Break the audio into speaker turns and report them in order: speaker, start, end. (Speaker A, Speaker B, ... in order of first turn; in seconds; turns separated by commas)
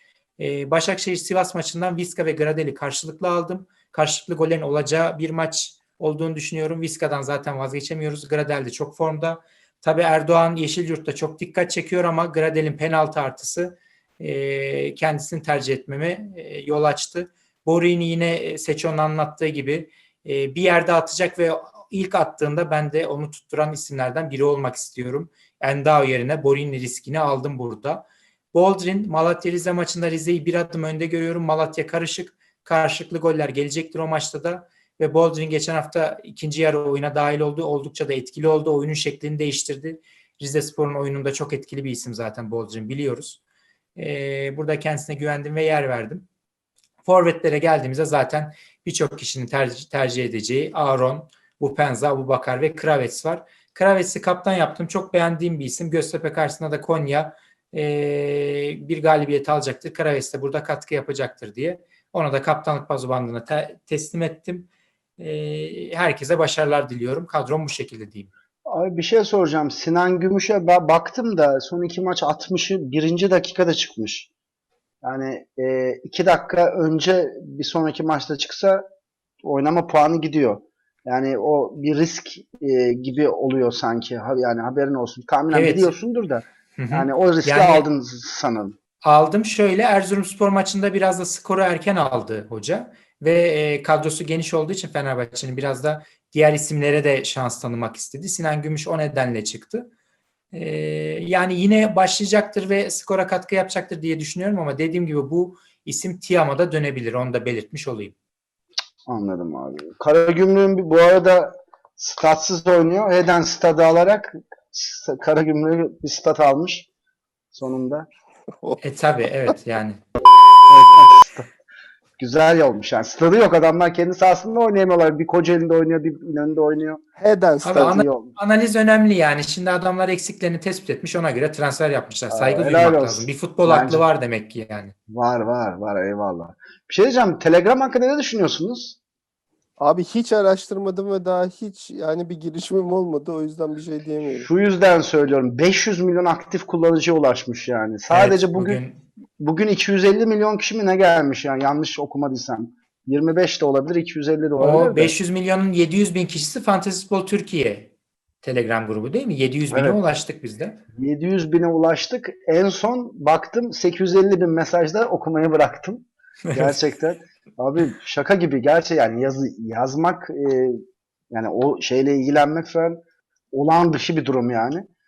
Speaker A: 0.4-43.4, Speaker A: 44.0-46.3, Speaker A: 47.0-64.7, Speaker A: 65.2-68.3, Speaker B: 68.7-74.3, Speaker B: 75.0-78.8, Speaker B: 79.4-88.8, Speaker A: 85.5-85.9, Speaker A: 86.8-87.9, Speaker A: 89.0-99.9, Speaker A: 100.5-108.2, Speaker B: 109.1-116.9, Speaker B: 117.5-118.1, Speaker A: 118.8-120.0, Speaker B: 120.7-121.5, Speaker B: 122.2-127.0, Speaker C: 127.2-127.9, Speaker A: 127.6-134.9, Speaker B: 127.7-128.3, Speaker B: 132.3-134.0, Speaker B: 135.1-139.0, Speaker C: 139.8-144.5, Speaker B: 144.3-148.8, Speaker A: 148.1-149.0, Speaker B: 149.4-155.1, Speaker A: 154.6-157.9, Speaker A: 158.4-160.8, Speaker B: 159.7-160.0, Speaker B: 160.9-173.0, Speaker A: 166.5-166.8, Speaker B: 173.5-174.9